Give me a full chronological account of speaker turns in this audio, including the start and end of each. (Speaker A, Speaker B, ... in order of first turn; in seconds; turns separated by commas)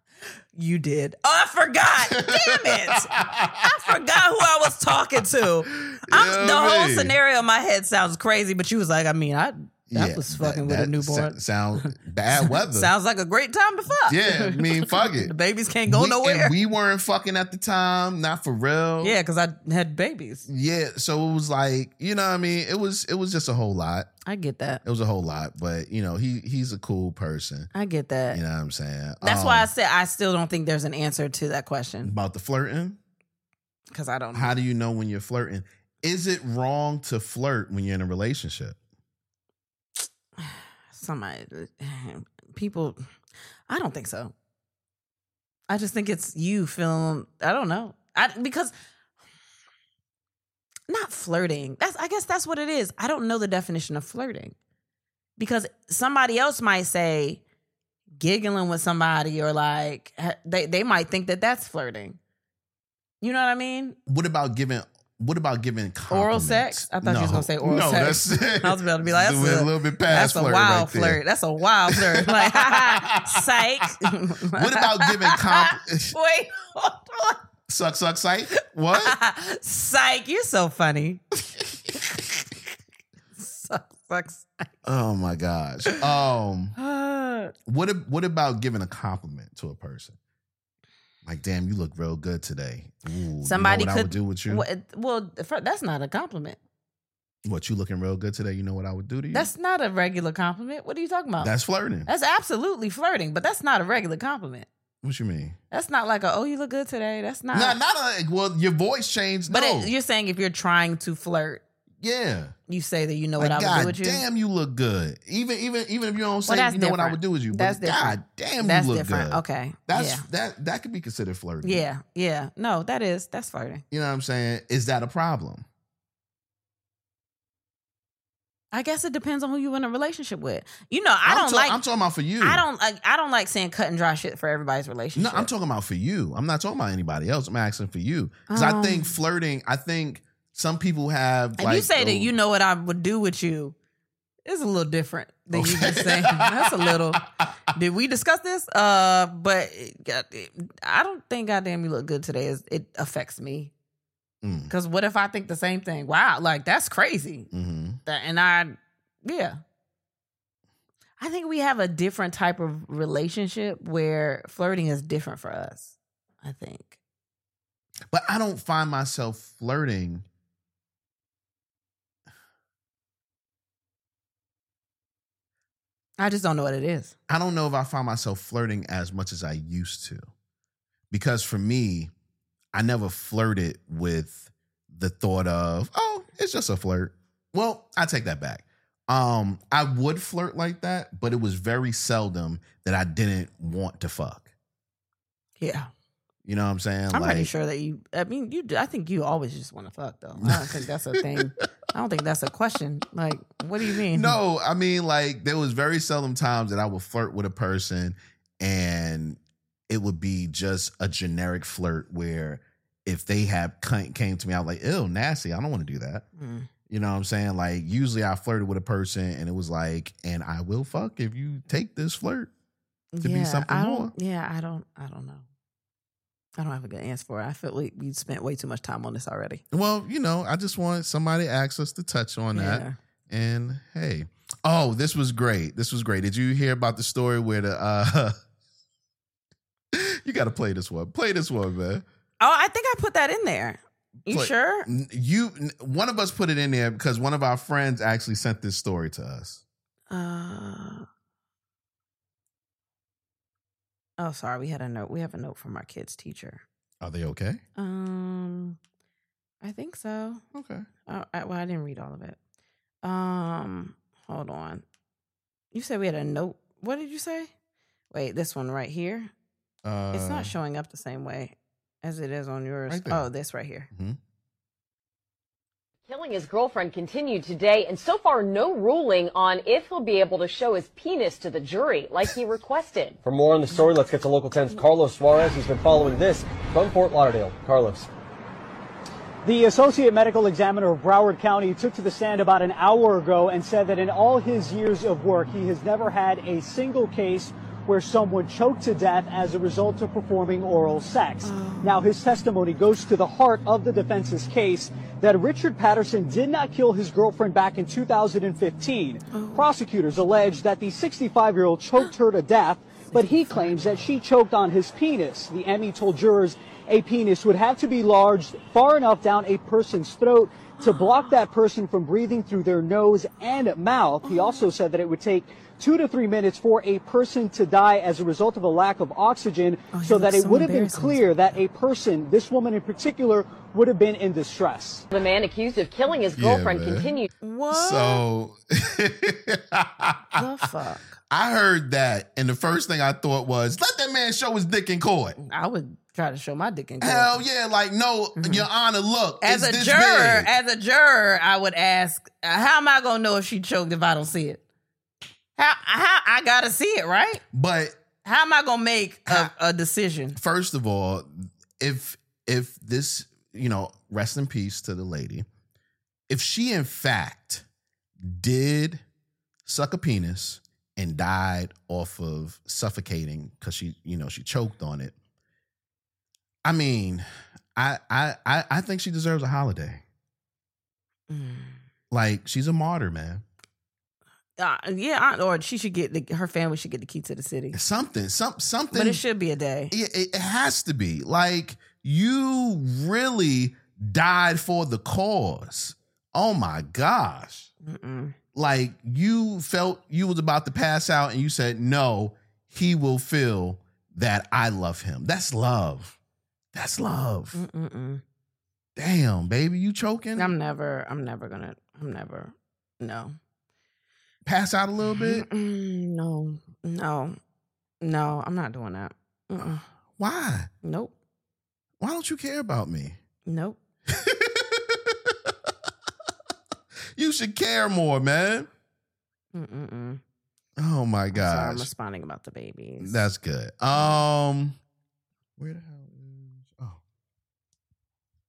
Speaker A: 0.5-3.1, Speaker B: 2.1-3.8, Speaker A: 3.6-16.6, Speaker B: 5.7-7.1, Speaker B: 9.9-12.9, Speaker B: 14.1-15.3, Speaker B: 15.9-19.1, Speaker A: 19.0-20.5, Speaker B: 20.5-24.1, Speaker A: 24.2-24.8, Speaker B: 24.8-27.7, Speaker A: 27.7-28.4, Speaker B: 28.3-29.7, Speaker A: 29.2-32.1, Speaker B: 32.0-33.0, Speaker A: 33.9-34.5, Speaker B: 34.3-38.8, Speaker A: 40.4-43.0, Speaker A: 43.7-44.3, Speaker A: 45.7-48.7, Speaker A: 50.9-54.5, Speaker A: 55.4-57.4, Speaker A: 58.2-62.2, Speaker A: 63.2-64.0, Speaker B: 64.1-71.2, Speaker A: 66.1-77.4, Speaker B: 71.9-73.6, Speaker B: 74.5-76.2, Speaker B: 77.7-79.2, Speaker A: 78.9-81.2, Speaker A: 83.3-84.7, Speaker B: 84.8-86.7, Speaker A: 86.8-87.5, Speaker B: 87.7-90.2, Speaker B: 91.2-94.6, Speaker A: 93.4-96.6, Speaker B: 97.4-99.5, Speaker A: 99.3-101.5, Speaker B: 101.4-102.1, Speaker A: 102.1-104.7, Speaker B: 105.0-105.6, Speaker A: 105.7-107.8, Speaker B: 107.5-109.9, Speaker A: 109.5-111.6, Speaker B: 112.0-112.5, Speaker A: 112.7-114.2, Speaker B: 113.4-121.8, Speaker A: 116.5-120.2, Speaker A: 121.6-123.8, Speaker B: 123.9-125.6, Speaker A: 128.7-131.8, Speaker B: 131.2-132.6, Speaker A: 132.4-135.5, Speaker B: 135.1-142.3, Speaker A: 138.5-139.1, Speaker A: 141.6-143.7, Speaker A: 144.4-147.2, Speaker B: 145.5-147.2, Speaker A: 147.7-153.7, Speaker B: 154.4-154.7, Speaker A: 154.7-157.5, Speaker B: 157.5-158.0, Speaker A: 158.1-159.6, Speaker A: 161.2-167.0, Speaker B: 168.1-170.2, Speaker A: 176.2-177.1, Speaker B: 177.3-180.2, Speaker B: 181.1-182.1, Speaker B: 182.7-194.5, Speaker A: 195.6-195.9, Speaker B: 196.4-197.5, Speaker A: 197.1-204.4, Speaker B: 200.4-201.4, Speaker B: 204.1-216.2, Speaker A: 216.4-216.7, Speaker B: 216.9-222.5, Speaker A: 223.1-225.4, Speaker B: 223.2-224.1, Speaker A: 226.6-229.6, Speaker B: 229.7-238.3, Speaker A: 232.5-232.9, Speaker B: 239.9-242.0, Speaker A: 242.4-244.9, Speaker B: 244.3-249.6, Speaker A: 250.1-251.1, Speaker A: 254.2-256.6, Speaker B: 257.0-257.6, Speaker A: 257.8-258.8, Speaker A: 259.6-260.4, Speaker B: 260.5-260.9, Speaker A: 261.1-262.4, Speaker A: 263.0-264.8, Speaker A: 265.7-267.5, Speaker A: 268.1-269.3, Speaker B: 269.8-270.5, Speaker A: 270.1-273.9, Speaker B: 272.9-273.3, Speaker B: 273.9-274.2, Speaker C: 276.1-283.2, Speaker D: 283.2-288.1, Speaker E: 289.4-335.1, Speaker A: 301.4-302.1, Speaker A: 309.3-309.7, Speaker A: 313.1-313.7, Speaker A: 320.8-321.1, Speaker A: 324.2-324.6, Speaker A: 329.9-331.2, Speaker C: 335.1-337.3, Speaker B: 336.4-337.2, Speaker A: 337.4-338.2, Speaker B: 337.7-340.5, Speaker A: 340.3-341.1, Speaker B: 341.3-345.4, Speaker A: 345.4-347.4, Speaker B: 347.0-350.5, Speaker A: 348.4-348.6, Speaker A: 349.4-354.6, Speaker A: 355.6-357.4, Speaker B: 357.5-358.0, Speaker A: 358.2-360.4, Speaker B: 359.3-359.5, Speaker B: 360.4-365.4, Speaker B: 366.3-367.6, Speaker B: 368.2-369.0, Speaker B: 369.6-375.1, Speaker B: 376.6-380.0, Speaker A: 381.3-381.8, Speaker B: 382.1-383.4, Speaker A: 384.6-387.8, Speaker B: 387.7-389.2, Speaker A: 388.9-389.9, Speaker B: 389.9-397.7, Speaker A: 397.8-398.3, Speaker B: 398.5-406.1, Speaker B: 406.7-407.6, Speaker A: 407.5-408.2, Speaker B: 408.9-410.5, Speaker A: 410.4-413.4, Speaker B: 414.4-415.4, Speaker A: 415.1-417.4, Speaker A: 418.0-419.8, Speaker B: 420.2-420.7, Speaker A: 420.8-421.1, Speaker B: 422.0-423.2, Speaker A: 423.4-423.8, Speaker B: 424.1-425.7, Speaker B: 427.1-428.7, Speaker A: 429.5-430.2, Speaker B: 430.8-431.9, Speaker A: 431.3-433.3, Speaker B: 433.0-434.8, Speaker A: 433.9-434.2, Speaker B: 435.6-437.0